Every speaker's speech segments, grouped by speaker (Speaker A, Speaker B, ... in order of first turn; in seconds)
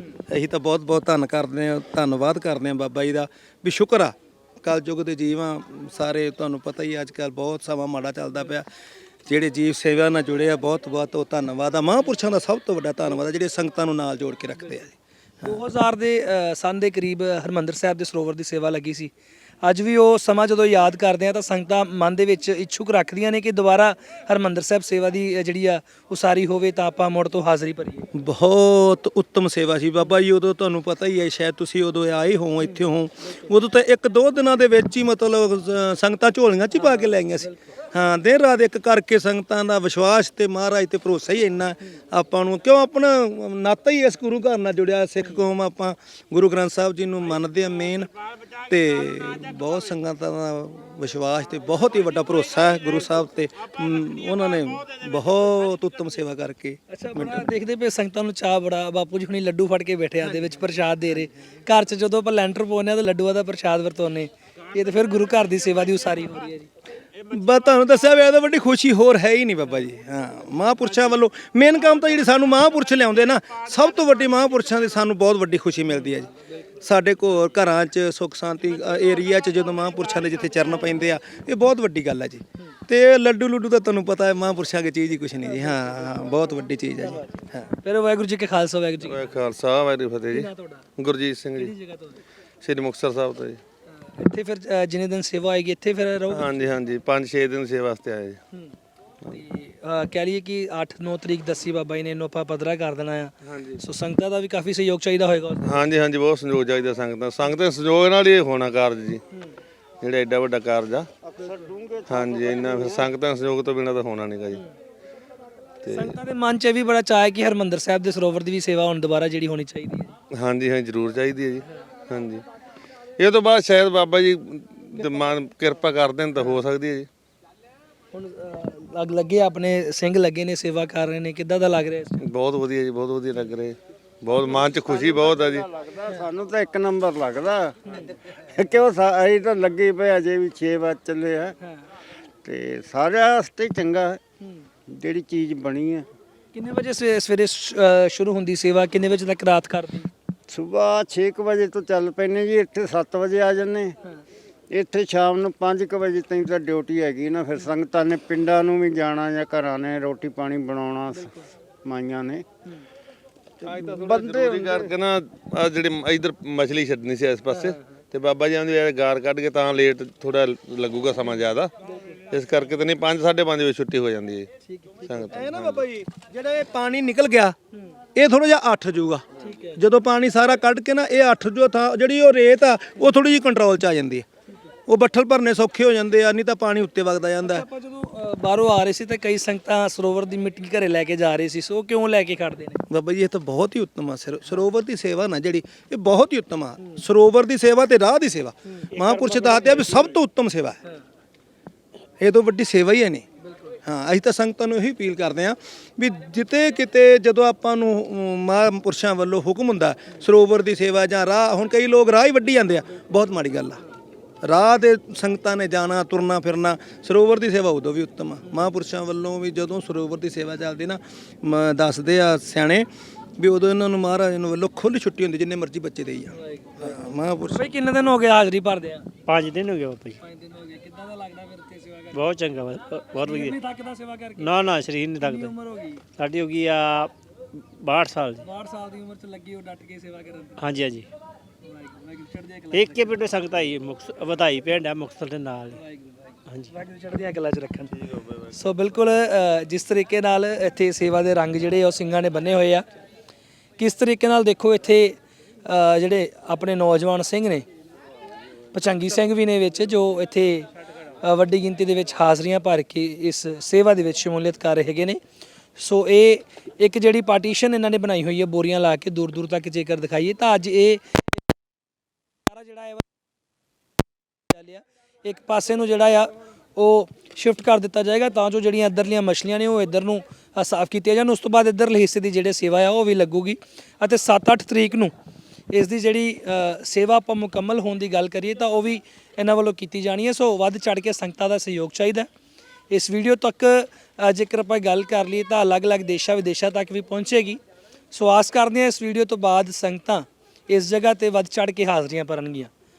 Speaker A: 0.3-8.7, 9.2-15.6, 28.1-48.1, 48.7-57.5, 67.3-87.7, 175.3-177.6, 178.1-184.2, 184.9-187.7, 192.9-200.8, 202.2-203.2, 203.8-213.8, 214.4-222.9, 223.4-227.7
Speaker B: 15.4-19.1, 19.6-28.1, 56.9-66.7, 87.8-89.3, 90.3-90.8, 91.6-92.2, 94.1-96.6, 99.3-105.8, 115.9-120.1, 128.1-132.2, 146.5-150.1, 174.7-175.0, 179.4-179.8, 187.4-192.8, 226.4-226.8, 227.5-229.1, 230.2-232.2, 233.2-234.5, 235.2-236.1, 238.4-240.6, 241.7-243.2, 245.8-247.9, 248.5-252.8, 253.8-257.6, 258.7-260.7, 261.2-265.2, 265.8-271.0, 272.5-273.0, 274.5-285.1, 285.7-292.3, 292.9-297.6, 298.1-302.7
Speaker C: 89.0-91.7, 92.6-93.6, 96.3-98.4, 103.4-103.8, 105.6-109.2, 110.0-111.1, 112.1-114.6, 115.8-116.2, 120.3-122.4, 123.2-127.1, 132.2-135.7, 163.6-171.7, 172.3-174.5, 175.1-175.8
Speaker D: 111.2-113.1, 134.8-141.6, 142.4-144.2, 144.9-146.1, 150.5-153.9, 154.7-162.4, 163.6-164.9
Speaker E: 199.0-199.9, 229.3-230.2, 232.1-233.6, 234.4-235.5, 236.2-237.1, 237.8-238.4, 240.6-241.1, 242.7-245.8